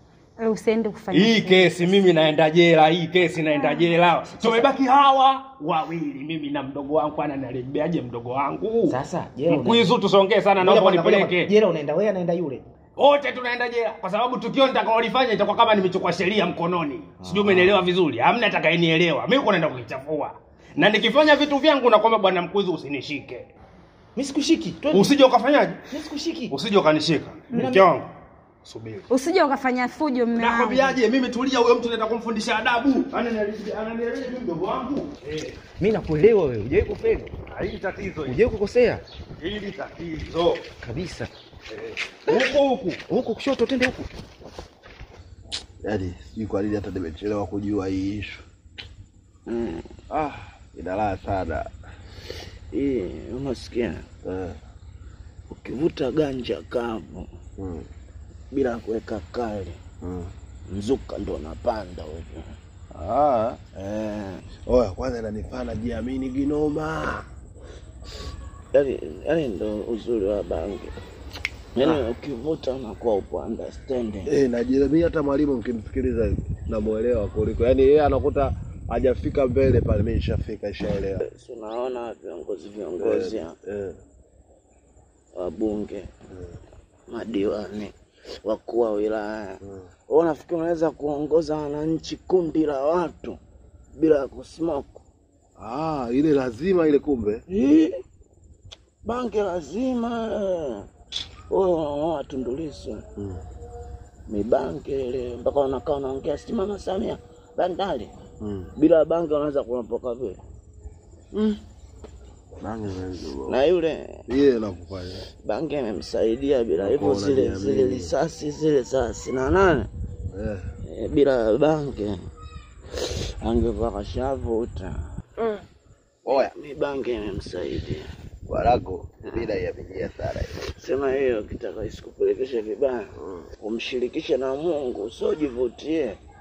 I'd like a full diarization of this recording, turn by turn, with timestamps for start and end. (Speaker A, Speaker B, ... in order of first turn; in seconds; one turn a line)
Speaker A: 0.4-2.0
Speaker B: 1.1-9.0
Speaker A: 3.5-3.9
Speaker C: 4.4-4.7
Speaker C: 8.9-9.9
Speaker B: 9.5-11.5
Speaker C: 10.6-12.6
Speaker B: 13.0-23.5
Speaker C: 17.2-17.9
Speaker C: 24.1-25.1
Speaker B: 24.9-25.8
Speaker C: 25.9-26.6
Speaker B: 26.5-28.1
Speaker C: 27.5-27.8
Speaker B: 28.6-29.1
Speaker A: 29.1-31.0
Speaker B: 30.3-35.6
Speaker C: 35.8-37.3
Speaker B: 37.5-38.4
Speaker C: 38.2-39.0
Speaker B: 39.4-40.6
Speaker C: 40.8-41.3
Speaker B: 41.7-43.0
Speaker C: 43.1-44.1
Speaker D: 45.8-48.4
Speaker E: 49.5-49.9
Speaker D: 50.1-51.7
Speaker E: 52.7-54.0
Speaker D: 54.2-54.6
Speaker E: 55.5-57.3
Speaker D: 57.6-57.9
Speaker E: 58.5-59.8
Speaker D: 60.0-60.3
Speaker E: 60.7-62.5
Speaker D: 62.9-63.7
Speaker E: 63.8-64.4
Speaker D: 64.7-67.2
Speaker E: 68.7-70.9
Speaker E: 71.8-74.3
Speaker D: 74.2-81.2
Speaker E: 81.2-83.5
Speaker D: 83.0-84.0
Speaker E: 85.3-86.1
Speaker E: 87.1-93.4
Speaker E: 93.9-95.0
Speaker D: 95.6-97.4
Speaker E: 97.5-98.0
Speaker E: 99.0-100.8
Speaker E: 101.5-103.0
Speaker D: 103.2-103.4
Speaker E: 104.3-108.1
Speaker D: 108.4-108.7
Speaker E: 108.8-110.4
Speaker D: 111.3-111.6
Speaker D: 112.6-113.6
Speaker E: 113.5-114.0
Speaker D: 114.3-115.3
Speaker E: 115.4-119.9
Speaker D: 116.8-118.1
Speaker D: 120.3-120.6
Speaker E: 120.9-122.2
Speaker E: 122.9-125.0
Speaker E: 126.2-128.1
Speaker D: 128.5-130.7
Speaker E: 130.8-136.2
Speaker D: 133.2-133.5